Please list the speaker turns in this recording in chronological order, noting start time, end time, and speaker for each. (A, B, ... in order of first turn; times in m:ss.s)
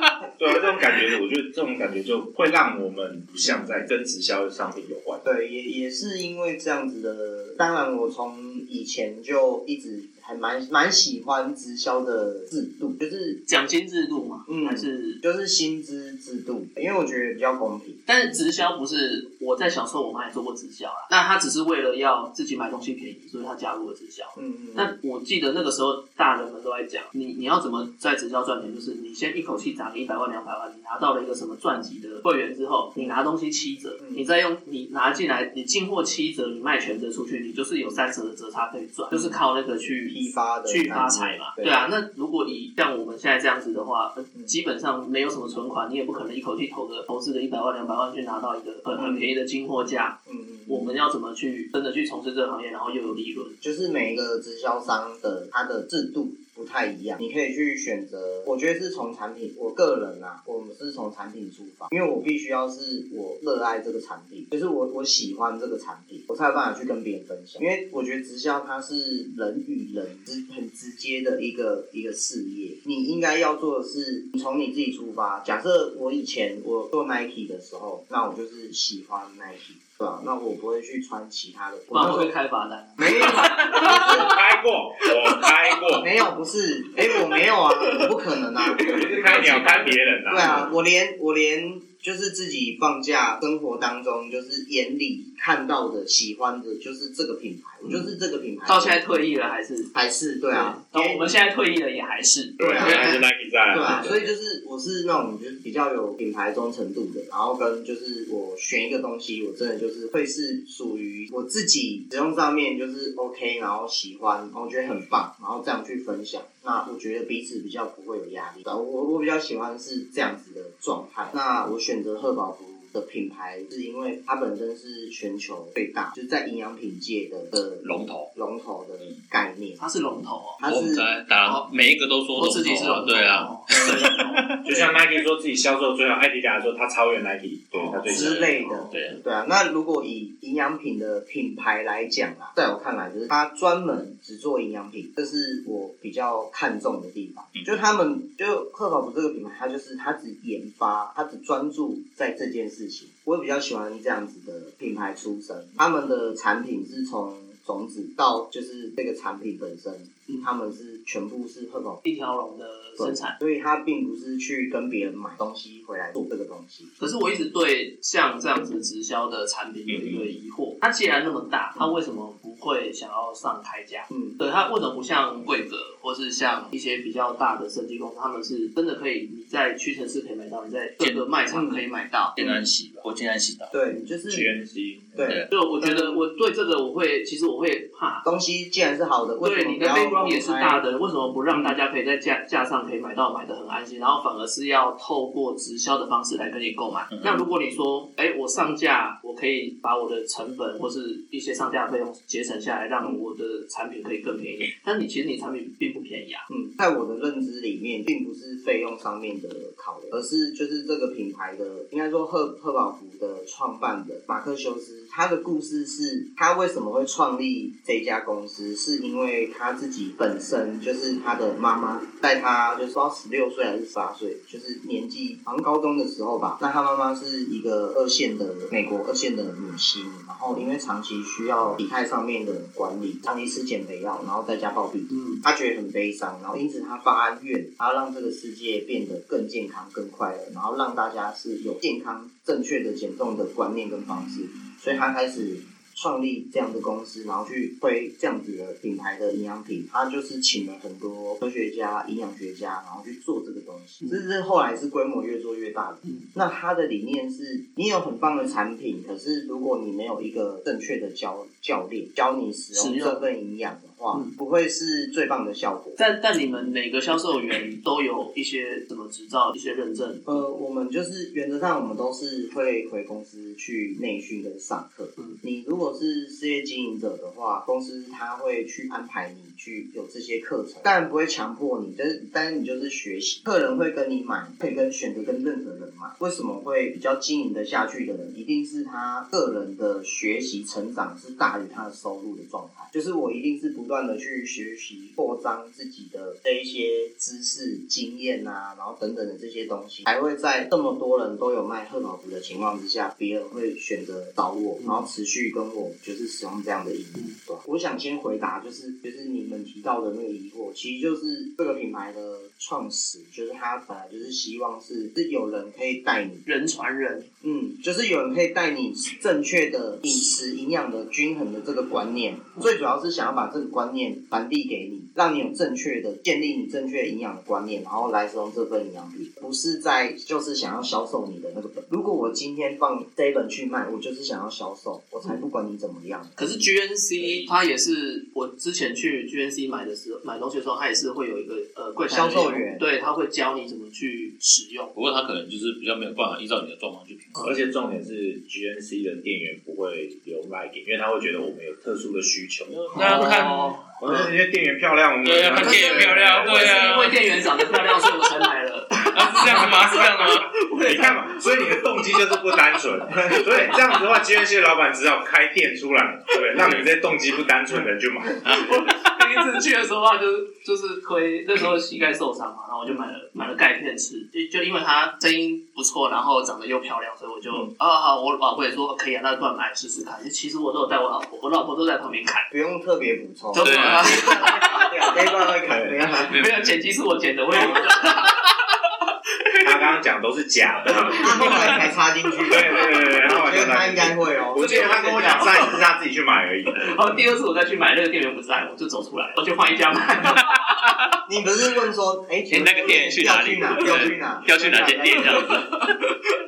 0:00.4-0:05.2 A
0:05.2-0:13.4 B
0:13.5-0:15.2 C
0:14.5-0:18.0 B
0:18.1-0:53.6 C
0:24.4-0:24.9 B
0:34.0-0:34.3 B
0:39.1-0:39.4 B
0:40.1-0:41.8 B
0:49.0-0:49.3 B
0:50.3-0:50.9 B
0:53.6-1:22.3 B
1:21.9-1:24.3 C
1:23.0-1:24.4 B
1:23.8-1:26.1 A
1:25.0-1:25.8 C
1:26.0-1:29.0 B
1:27.2-1:30.0 C
1:28.8-1:30.7 A
1:30.3-1:39.0 B
1:37.8-1:38.1 C
1:38.7-1:39.9 C
1:39.9-1:41.3 B
1:40.5-1:43.2 C
1:42.6-1:43.1 B
1:42.6-1:44.3 A
1:43.7-2:09.8 B
2:07.8-2:08.3 D
2:09.8-2:10.6 C
2:10.6-2:11.1 B
2:10.6-2:14.9 D
2:11.4-2:11.7 C
2:12.3-2:14.9 C
2:14.6-2:18.4 A
2:17.7-2:19.2 C
2:18.0-2:42.0 B
2:18.1-2:19.2 D
2:42.0-2:43.4 C
2:43.0-2:46.9 B
2:47.0-3:02.4 C
2:49.9-2:50.3 D
2:54.1-2:54.4 B
3:01.5-3:01.8 B
3:02.4-3:03.7 D
3:03.7-3:04.5 B
3:04.3-3:05.3 A
3:05.2-3:06.2 B
3:05.5-3:08.2 C
3:08.2-3:10.8 B
3:09.4-3:26.5 C
3:17.1-3:17.4 D
3:26.5-4:26.0 B
3:55.1-3:55.4 C
4:22.7-4:23.2 C
4:26.0-4:30.4 C
4:30.3-5:16.4 B
5:04.8-5:05.1 C
5:16.5-5:17.3 C
5:17.4-5:36.4 B
5:36.4-5:44.9 C
5:42.1-5:42.8 B
5:44.9-5:47.4 D
5:47.4-5:53.4 A
5:52.7-5:53.8 D
5:52.9-5:54.3 C
5:54.0-5:57.2 A
5:55.2-5:58.1 D
5:55.5-6:02.6 C
5:59.1-6:00.5 D
6:00.8-6:08.7 A
6:03.1-6:04.0 C
6:06.6-6:06.8 D
6:08.4-6:09.5 D
6:08.4-6:22.5 C
6:22.5-6:26.4 B
6:23.5-6:25.2 C
6:23.6-6:24.3 D
6:25.6-6:26.0 A
6:26.3-6:26.6 D
6:26.3-6:30.0 C
6:27.5-6:27.9 B
6:29.6-6:31.8 A
6:30.9-6:31.7 C
6:31.2-6:34.9 B
6:32.5-6:37.0 A
6:34.6-6:35.8 C
6:36.8-6:40.6 C
6:40.4-6:41.0 D
6:41.3-6:45.5 B
6:42.5-6:43.2 C
6:42.5-6:45.9 D
6:45.3-6:46.1 C